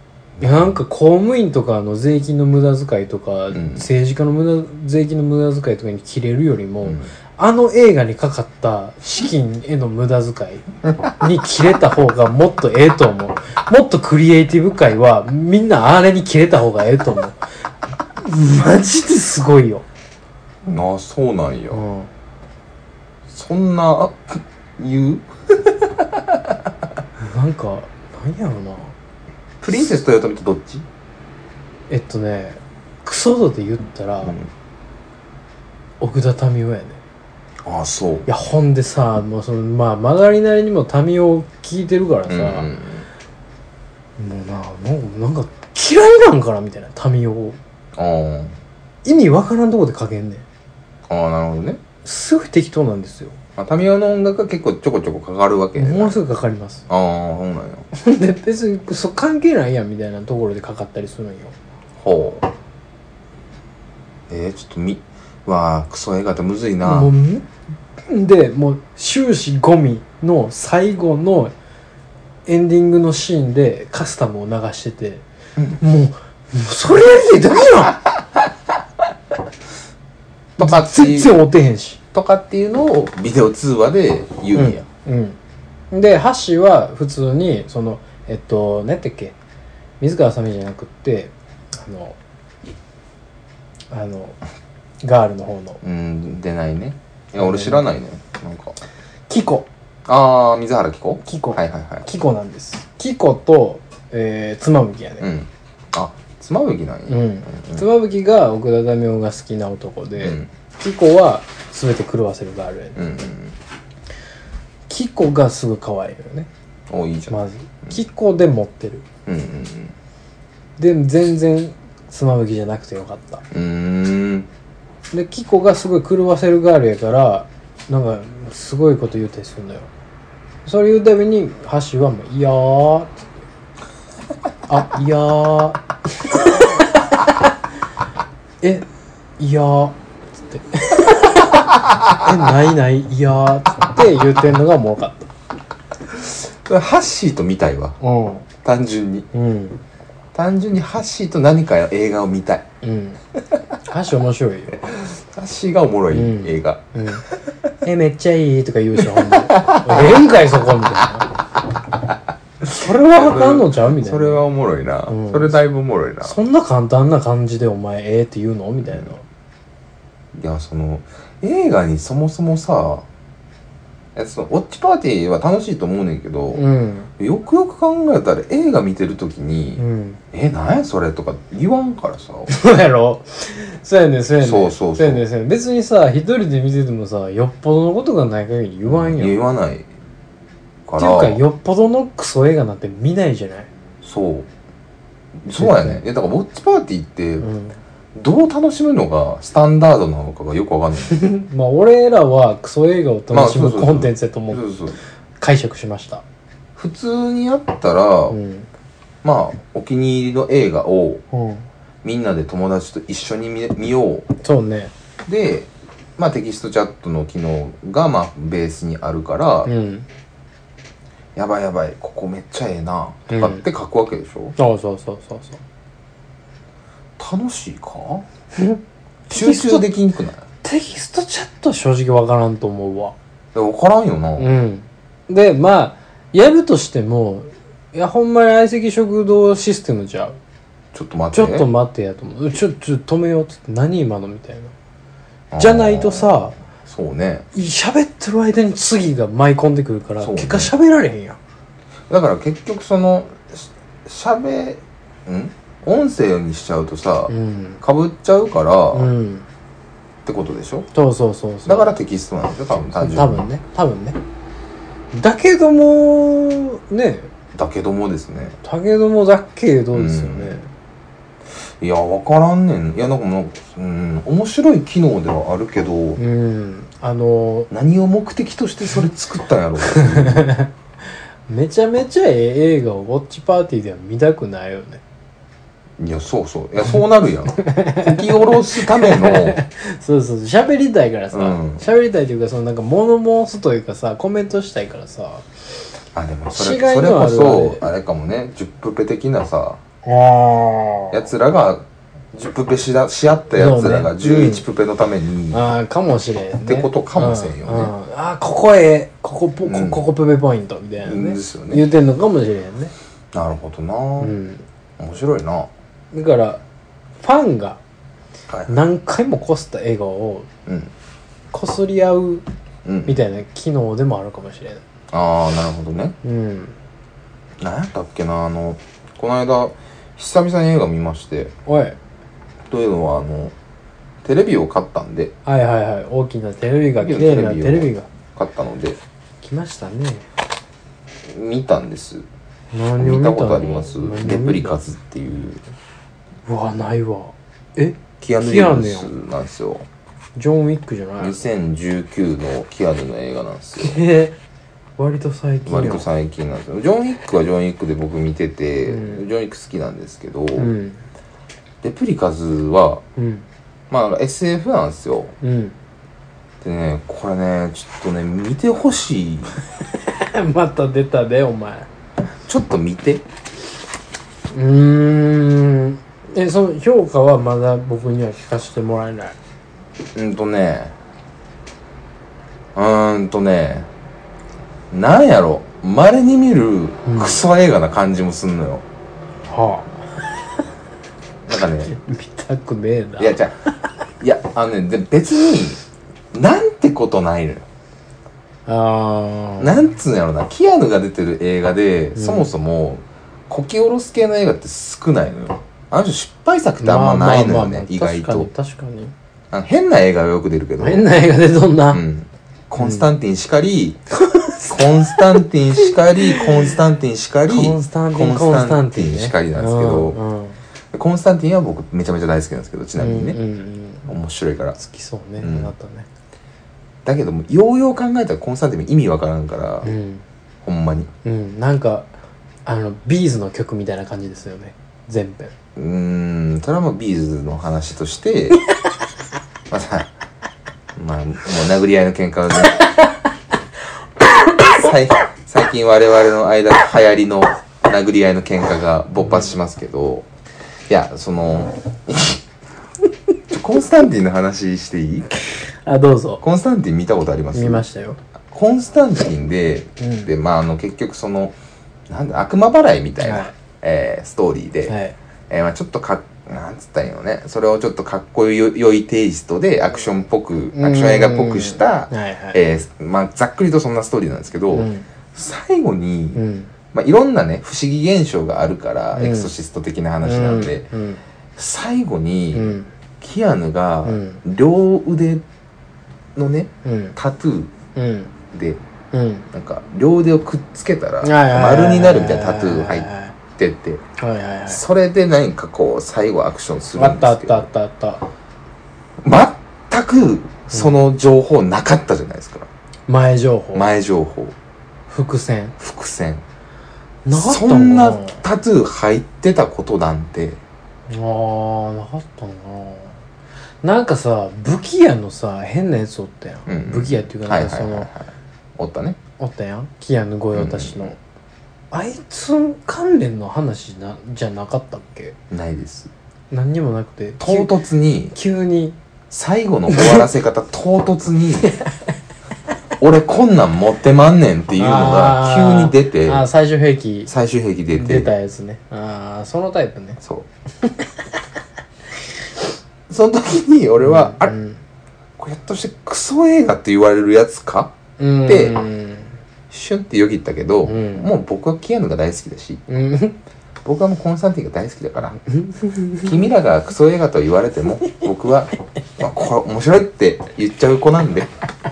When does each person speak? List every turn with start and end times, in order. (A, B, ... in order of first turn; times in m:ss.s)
0:00.4-0:00.7 A
0:00.4-0:17.4 B
0:03.5-0:03.9 A
0:06.8-0:07.1 A
0:18.2-0:19.8 B
0:20.6-0:21.8 A
0:21.7-0:22.1 B
0:23.3-0:26.7 A
0:27.2-0:28.9 B
0:29.6-0:30.8 A
0:31.9-0:34.4 B
0:36.0-0:37.0 B
0:37.6-0:38.3 A
0:38.2-0:42.7 B
0:42.3-0:43.1 A
0:44.2-0:47.6 B
0:47.9-0:48.6 A
0:49.0-0:50.4 B
0:51.1-0:51.8 A
0:52.0-0:53.4 B
0:53.6-0:56.2 A
0:55.8-0:56.8 B
0:56.9-0:57.8 A
0:57.9-1:01.5 B
1:02.0-1:02.5 A
1:04.3-1:07.1 A
1:06.8-1:07.5 B
1:08.0-1:11.5 B
1:12.4-1:15.2 B
1:15.8-1:18.0 B
1:20.6-1:21.4 A
1:20.6-1:22.0 B
1:22.1-1:24.8 A
1:24.5-1:25.4 B
1:25.9-1:29.4 B
1:30.0-1:32.2 B
1:33.9-1:34.4 B
1:35.0-1:35.8 B
1:35.8-1:38.8 A
1:37.4-1:37.8 B
1:39.3-1:39.7 B
1:40.0-1:42.0 A
1:41.2-1:45.3 B
1:45.2-1:47.8 A
1:47.1-1:53.0 B
1:50.2-1:50.5 A
1:53.0-1:53.6 A
1:54.9-1:56.5 B
1:56.9-1:57.4 A
1:57.3-1:59.0 B
1:59.2-1:59.9 A
2:00.8-2:03.4 B
2:03.5-2:04.5 A
2:05.1-2:09.9 B
2:10.6-2:13.3 B
2:14.7-2:17.2 B
2:18.6-2:18.8 B
2:19.4-2:25.3 B
2:26.1-2:28.0 A
2:28.0-2:28.4 B
2:28.6-2:29.3 A
2:29.3-2:29.8 B
2:30.3-2:32.6 A
2:32.8-2:33.2 B
2:33.8-2:34.8 B
2:34.8-2:37.6 A
2:36.1-2:37.2 B
2:37.8-2:41.3 B
2:39.2-2:40.2 A
2:42.6-2:44.4 B
2:42.6-2:46.4 A
2:45.1-2:45.6 B
2:46.2-2:49.2 B
2:50.3-2:53.0 A
2:54.1-2:56.6 A
2:56.5-2:57.1 B
2:57.2-3:02.5 A
2:59.8-3:00.2 B
3:02.5-3:09.4 B
3:04.4-3:05.2 A
3:08.8-3:09.9 A
3:10.8-3:11.4 A
3:11.0-3:13.7 B
3:14.0-3:14.5 A
3:15.4-3:17.5 A
3:15.5-3:16.0 B
3:17.4-3:17.8 B
3:18.1-3:21.2 A
3:21.1-3:24.6 B
3:23.3-3:25.0 A
3:25.4-3:26.2 B
3:26.8-3:28.4 A
3:28.3-3:28.7 B
3:29.2-3:31.2 A
3:31.3-3:31.6 B
3:32.0-3:34.3 A
3:34.4-3:34.9 B
3:35.2-3:39.7 A
3:39.6-3:40.0 B
3:41.3-3:44.6 A
3:43.3-3:43.6 B
3:44.6-3:45.6 B
3:47.2-3:48.2 A
3:48.5-3:49.9 B
3:49.3-3:50.4 A
3:50.6-3:53.1 B
3:53.5-3:54.5 A
3:54.4-4:00.4 B
4:00.9-4:01.7 A
4:01.3-4:04.7 B
4:05.5-4:07.4 A
4:05.6-4:06.6 B
4:07.5-4:11.4 B
4:10.2-4:10.7 A
4:12.1-4:19.1 A
4:17.3-4:17.8 B
4:18.9-4:19.5 B
4:20.2-4:20.9 A
4:20.9-4:21.9 B
4:21.6-4:23.4 A
4:22.7-4:24.2 B
4:25.1-4:27.3 B
4:27.5-4:28.6 A
4:28.6-4:30.7 B
4:29.9-4:30.6 A
4:31.8-4:36.2 A
4:36.2-4:37.7 B
4:37.7-4:40.5 A
4:39.8-4:40.7 B
4:41.5-4:45.0 B
4:46.0-4:49.6 A
4:47.6-4:55.4 B
4:51.3-4:51.8 A
4:56.1-4:59.8 A
4:56.5-4:57.8 B
5:00.0-5:01.2 B
5:01.1-5:05.7 A
5:03.5-5:04.6 B
5:05.5-5:12.9 B
5:06.6-5:07.9 A
5:09.6-5:10.0 A
5:11.0-5:11.8 A
5:13.3-5:14.4 A
5:14.2-5:14.6 B
5:15.0-5:15.7 A
5:16.1-5:16.6 B
5:17.2-5:17.8 B
5:18.7-5:20.5 B
5:20.6-5:20.9 A
5:21.5-5:22.4 B
5:22.8-5:23.2 A
5:23.0-5:24.8 B
5:25.1-5:26.2 A
5:26.2-5:26.8 B
5:27.6-5:31.5 A
5:31.6-5:32.0 B
5:32.7-5:33.5 A
5:34.2-5:35.3 A
5:35.4-5:38.1 B
5:37.0-5:39.0 A
5:39.4-5:40.3 B
5:41.2-5:42.2 A
5:42.7-5:44.8 B
5:43.0-5:45.6 A
5:46.4-5:49.1 B
5:48.2-5:49.8 A
5:50.4-5:51.4 B
5:51.2-5:54.0 A
5:53.8-5:54.4 B
5:55.0-5:56.1 B
5:55.6-6:00.7 A
5:58.8-5:59.2 B
6:00.5-6:01.0 B
6:01.8-6:03.0 A
6:03.2-6:03.4 B
6:03.9-6:05.3 A
6:05.4-6:05.7 B
6:06.6-6:09.5 A
6:09.9-6:11.9 B
6:12.5-6:13.2 A
6:14.5-6:19.4 B
6:20.1-6:20.9 A
6:22.7-6:23.9 A
6:24.9-6:28.8 A
6:27.0-6:27.4 B
6:29.5-6:30.3 B
6:31.4-6:31.9 A
6:31.8-6:33.4 B
6:33.2-6:33.6 A
6:34.2-6:35.8 A
6:36.3-6:37.6 A
6:38.6-6:39.8 B
6:39.6-6:48.5 A
6:42.2-6:42.5 B
6:46.8-6:49.1 B
6:49.5-6:51.0 A
6:50.8-6:52.0 B
6:51.9-6:54.0 A
6:52.8-6:53.0 B
6:54.2-6:56.7 B
6:54.7-7:00.2 A
6:57.5-7:00.6 B
7:00.9-7:03.4 A
7:03.0-7:04.1 B
7:04.0-7:04.8 A
7:04.8-7:06.1 B
7:05.4-7:05.7 A
7:07.0-7:09.9 A
7:09.8-7:10.2 B
7:10.6-7:11.1 A
7:11.2-7:12.1 B
7:12.6-7:15.5 B
7:15.8-7:18.6 A
7:19.7-7:20.1 A
7:21.0-7:22.8 A
7:24.6-7:30.3 A
7:30.9-7:32.4 A
7:33.5-7:35.3 A
7:35.8-7:36.4 B
7:36.4-7:37.8 A
7:37.5-7:38.2 B
7:38.5-7:41.5 A
7:40.0-7:40.3 B
7:42.1-7:44.9 A
7:43.2-7:43.5 B
7:44.9-7:45.1 B
7:45.5-8:00.9 A
7:50.7-7:52.6 B
7:54.7-7:55.0 B
7:56.3-7:56.7 B
7:59.1-7:59.5 B
8:00.2-8:01.2 B
8:01.6-8:05.4 A
8:02.5-8:02.9 B
8:04.0-8:04.4 B
8:06.3-8:07.7 A
8:06.8-8:07.2 B
8:07.9-8:08.3 B
8:08.5-8:08.8 A
8:09.1-8:09.5 B
8:09.5-8:14.0 A
8:11.2-8:13.4 B
8:14.2-8:14.8 B
8:14.7-8:17.7 A
8:16.9-8:18.2 B
8:19.2-8:22.7 A
8:23.1-8:23.9 B
8:23.7-8:24.5 A
8:25.1-8:25.7 B
8:25.8-8:26.4 A
8:27.2-8:28.4 B
8:27.3-8:30.6 A
8:31.1-8:33.2 B
8:33.8-8:38.1 B
8:36.6-8:39.2 A
8:39.4-8:41.2 B
8:40.5-8:41.1 A
8:41.9-8:45.4 B
8:45.5-8:46.1 A
8:46.5-8:47.7 B
8:47.4-8:48.3 A
8:48.3-8:49.0 B
8:49.3-8:51.7 A
8:49.9-8:50.2 B
8:53.0-8:56.4 A
8:54.8-8:57.3 B
8:57.3-8:58.3 A
8:57.9-9:00.2 B
9:00.2-9:00.5 A
9:00.8-9:01.1 B
9:03.1-9:04.6 A
9:04.0-9:04.8 B
9:05.4-9:07.9 A
9:08.2-9:09.4 B
9:08.4-9:08.8 A
9:09.7-9:12.8 A
9:10.8-9:11.3 B
9:12.9-9:13.4 B
9:13.8-9:15.4 A
9:15.5-9:16.3 B
9:16.2-9:21.5 A